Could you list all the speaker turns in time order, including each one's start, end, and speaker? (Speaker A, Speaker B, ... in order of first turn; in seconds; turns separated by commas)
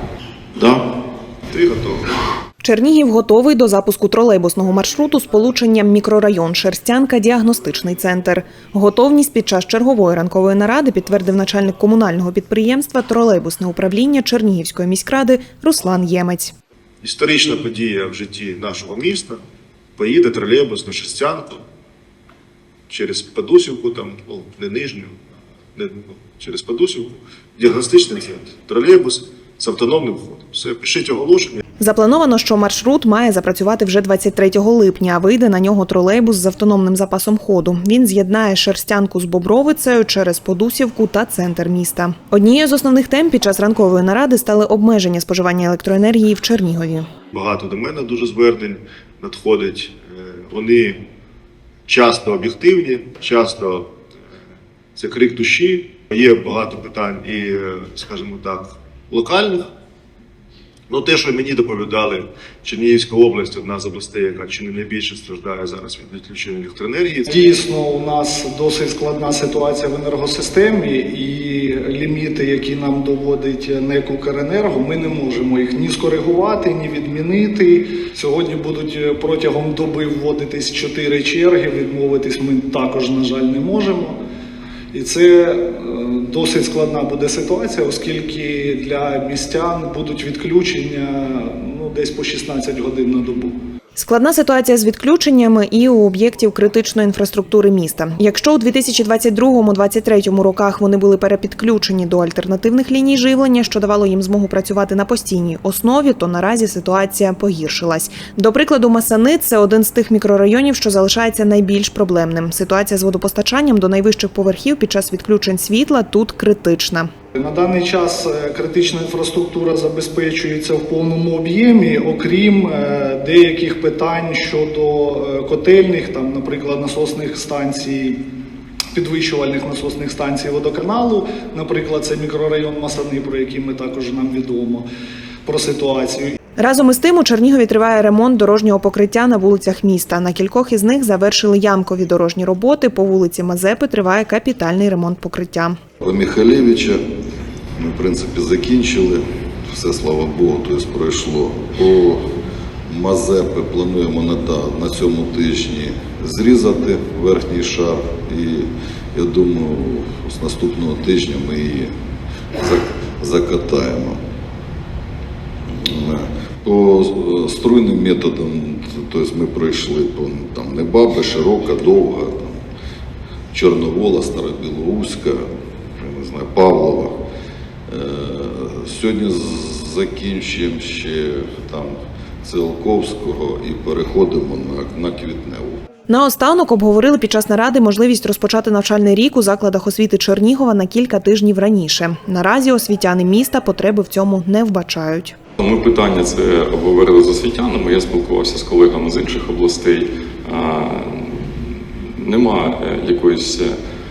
Speaker A: 0.5-0.8, Speaker B: 1.5-2.0, Speaker C: 2.6-16.5, Speaker B: 17.0-19.4, Speaker B: 19.9-21.6, Speaker B: 22.9-25.2, Speaker B: 25.7-31.6, Speaker C: 31.8-47.1, Speaker B: 47.3-51.0, Speaker B: 51.9-53.9, Speaker B: 54.9-59.7, Speaker B: 60.9-67.3, Speaker D: 67.3-84.2, Speaker D: 84.9-93.5, Speaker C: 93.9-117.1, Speaker D: 117.3-128.2, Speaker D: 128.9-134.8, Speaker D: 135.4-136.4, Speaker C: 136.6-145.8, Speaker E: 146.0-147.0, Speaker E: 147.8-152.2, Speaker E: 152.9-161.9, Speaker E: 162.6-164.2, Speaker E: 165.8-172.6, Speaker E: 173.5-175.5, Speaker E: 176.0-177.1, Speaker E: 177.9-185.8, Speaker C: 186.1-195.3, Speaker A: 195.6-201.5, Speaker A: 202.2-203.8